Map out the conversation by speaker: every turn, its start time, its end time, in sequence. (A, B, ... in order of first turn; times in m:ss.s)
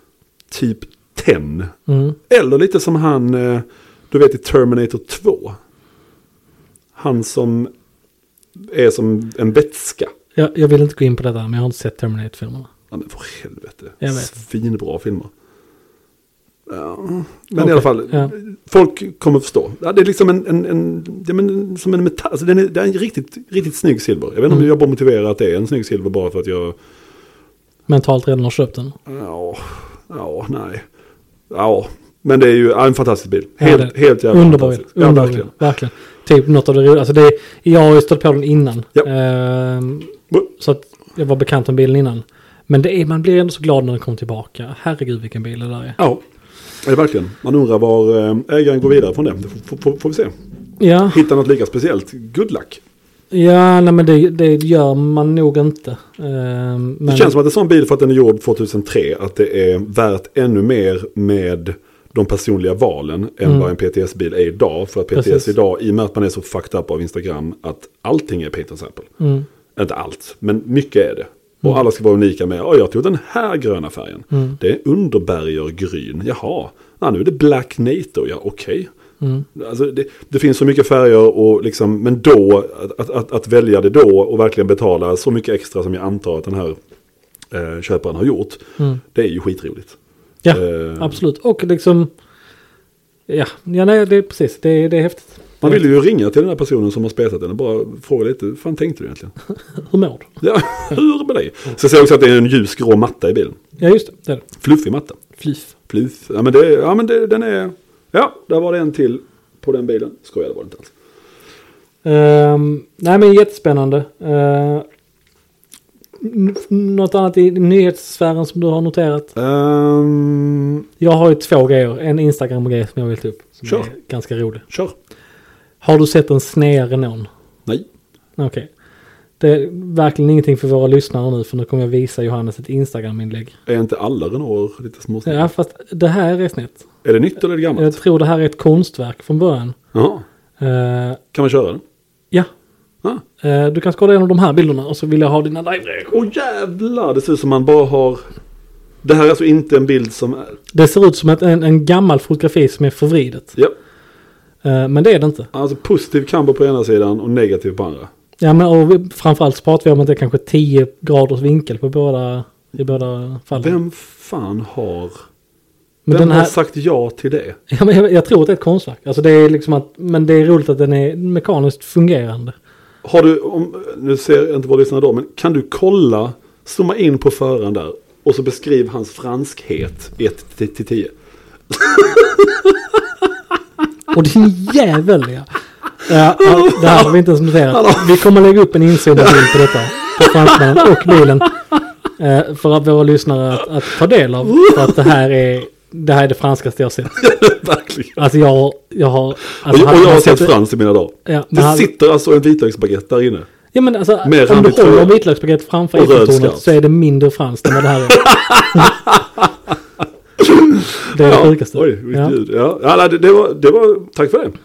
0:00.5-0:01.7 A
0:01.9-0:02.2 B
0:02.3-0:05.6 A
0:07.0-0:07.7 A
0:08.6-0:10.1 A
0:10.4-0:12.7 B
0:12.9-0:15.3 A
0:14.0-0:14.3 B
0:16.7-0:26.8 A
0:17.6-0:18.3 B
0:27.9-0:29.0 B
0:29.1-0:30.8 A
0:31.5-0:35.6 A
0:33.6-0:46.0 B
0:46.8-0:50.3 A
0:50.8-0:51.2 B
0:51.1-0:52.8 A
0:53.3-0:57.4 B
0:57.1-1:09.1 A
1:05.1-1:05.5 B
1:09.2-1:09.5 B
1:09.8-1:18.9 A
1:14.3-1:14.6 B
1:19.2-1:19.5 B
1:19.6-1:26.8 A
1:27.5-1:30.0 A
1:30.4-1:32.1 B
1:30.5-1:31.2 A
1:33.3-1:35.8 B
1:35.6-1:39.3 A
1:39.8-1:40.3 B
1:40.4-1:43.6 A
1:43.8-1:44.5 B
1:44.6-1:45.2 A
1:45.4-1:45.7 B
1:45.9-1:50.9 A
1:52.0-1:54.9 B
1:56.2-1:59.3 B
1:59.4-2:00.8 A
2:01.0-2:04.6 B
2:05.8-2:07.3 B
2:08.4-2:08.7 B
2:09.4-2:13.5 B
2:13.7-2:15.5 A
2:15.3-2:16.8 B
2:17.0-2:18.0 A
2:17.8-2:19.8 B
2:19.9-2:20.2 A
2:20.6-2:21.2 B
2:21.3-2:21.8 A
2:23.4-2:26.1 B
2:26.1-2:28.2 A
2:29.0-2:30.6 A
2:30.7-2:33.6 B
2:34.6-2:35.5 B
2:35.5-2:38.1 A
2:38.4-2:43.8 B
2:43.6-2:45.2 A
2:46.1-2:46.5 B
2:46.1-2:47.6 A
2:47.7-2:52.6 B
2:53.0-3:01.1 A
3:01.7-3:03.0 A
3:04.1-3:05.5 B
3:06.0-3:11.5 B
3:06.4-3:07.2 A
3:07.7-3:08.3 A
3:09.1-3:11.4 A
3:12.2-3:17.2 B
3:14.4-3:15.1 A
3:17.2-3:18.2 A
3:18.2-3:20.5 B
3:19.6-3:23.5 A
3:21.3-3:21.9 B
3:23.7-3:29.0 B
3:24.2-3:25.2 A
3:25.9-3:26.7 A
3:28.1-3:29.8 A
3:30.4-3:34.6 A
3:31.1-3:32.4 B